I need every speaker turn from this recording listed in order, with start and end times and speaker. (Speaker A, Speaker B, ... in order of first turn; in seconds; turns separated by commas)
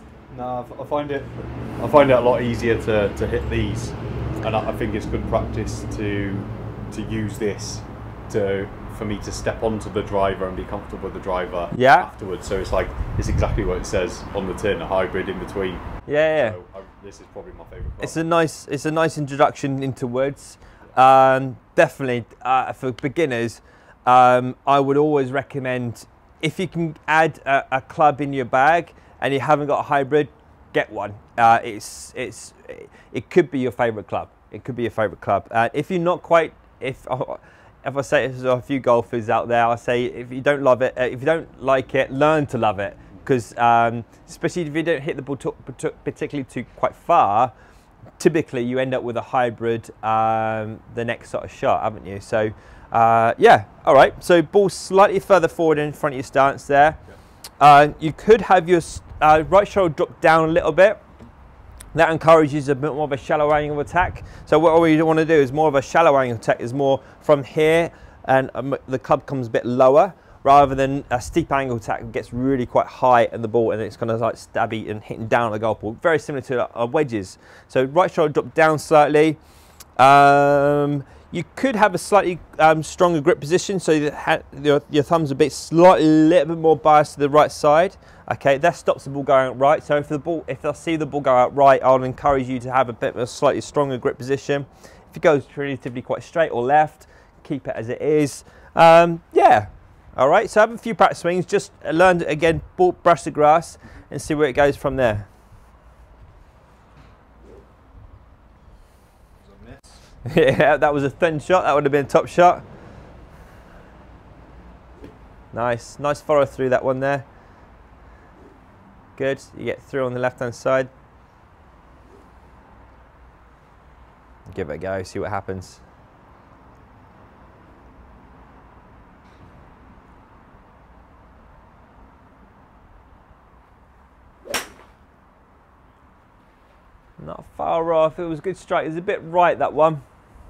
Speaker A: 0.3-15.9, Speaker B: 11.7-12.1, Speaker B: 16.1-16.6, Speaker A: 16.4-18.2, Speaker B: 18.0-47.5, Speaker B: 48.2-57.0, Speaker B: 57.6-61.0, Speaker B: 61.9-79.4, Speaker B: 80.0-105.3, Speaker A: 109.4-110.0, Speaker B: 110.2-112.6, Speaker B: 115.5-117.2, Speaker B: 119.2-120.9, Speaker B: 124.5-125.8, Speaker B: 137.2-140.0